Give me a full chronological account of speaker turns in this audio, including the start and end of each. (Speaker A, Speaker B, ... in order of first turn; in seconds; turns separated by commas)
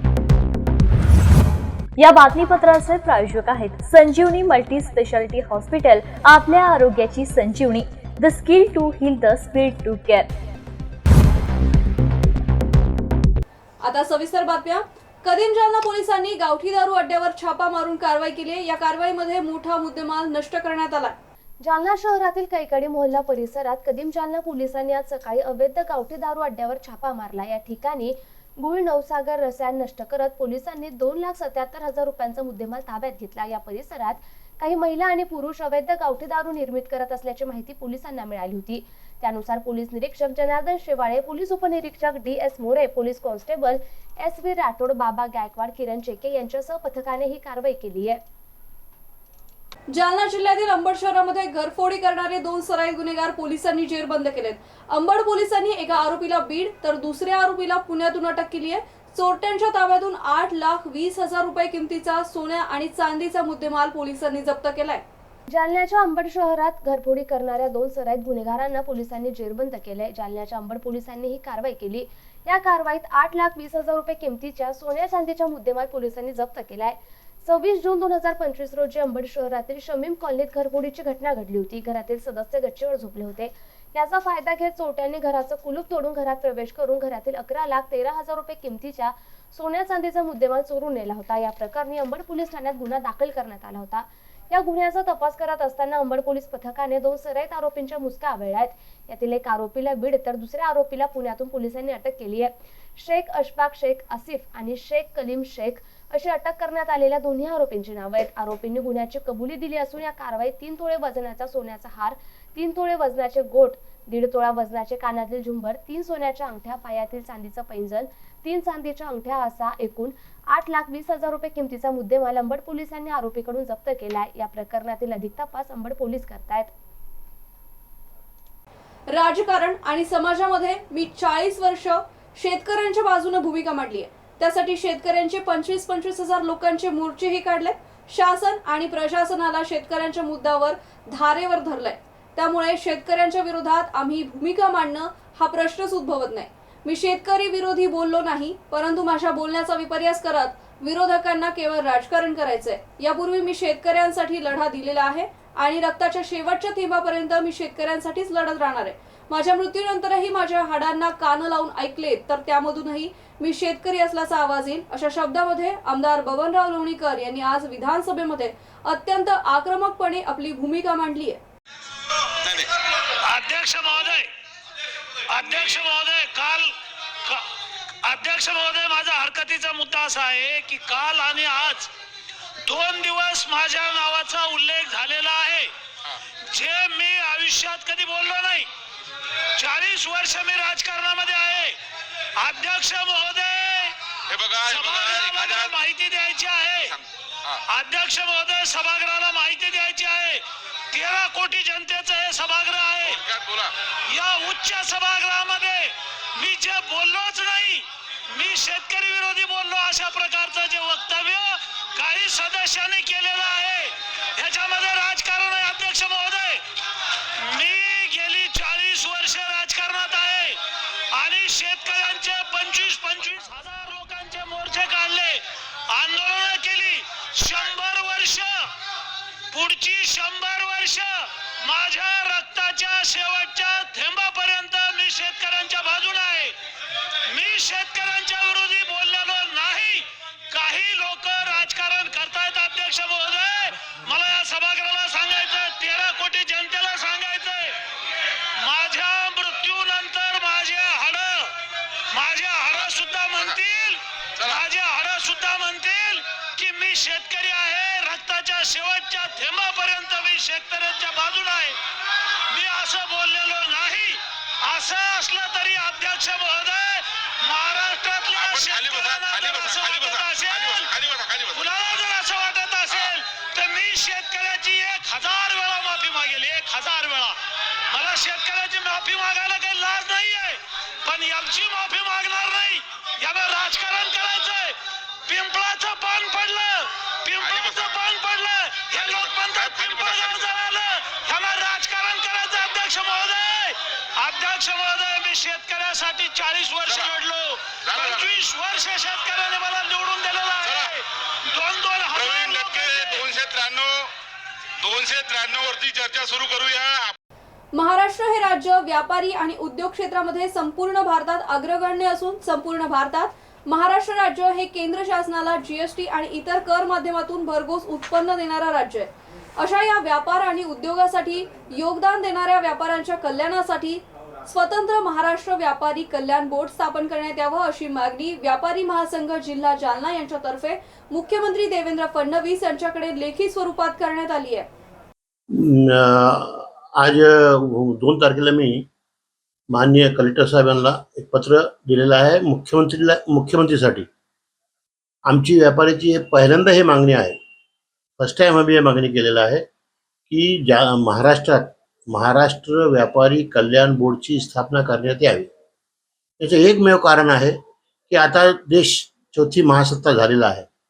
Speaker A: 2.0-10.3, Speaker B: 13.8-21.1, Speaker C: 21.6-48.2, Speaker B: 49.9-65.0, Speaker C: 65.5-126.7, Speaker B: 129.1-171.4, Speaker D: 173.2-174.3, Speaker D: 175.3-176.7, Speaker D: 178.0-181.9, Speaker D: 182.7-185.7, Speaker D: 186.5-188.7, Speaker D: 189.6-191.8, Speaker D: 192.4-193.9, Speaker E: 194.3-195.7, Speaker D: 194.7-196.9, Speaker E: 196.9-197.6, Speaker D: 197.7-203.2, Speaker E: 203.0-203.7, Speaker D: 204.1-216.6, Speaker D: 217.4-220.6, Speaker D: 221.1-228.7, Speaker D: 229.5-236.5, Speaker D: 237.3-247.8, Speaker D: 248.6-251.6, Speaker D: 252.1-261.8, Speaker D: 262.5-270.9, Speaker E: 268.3-271.7, Speaker D: 271.5-277.4, Speaker D: 277.9-303.3, Speaker E: 287.4-288.0, Speaker E: 288.9-290.5, Speaker E: 296.9-297.1, Speaker E: 297.9-298.2, Speaker E: 300.6-300.9, Speaker E: 302.1-304.1, Speaker E: 304.8-307.1, Speaker B: 307.7-334.7, Speaker F: 335.5-338.9, Speaker F: 339.7-344.1, Speaker F: 345.3-347.4, Speaker F: 348.2-349.6, Speaker F: 350.3-355.5, Speaker F: 356.4-357.6, Speaker F: 358.1-360.7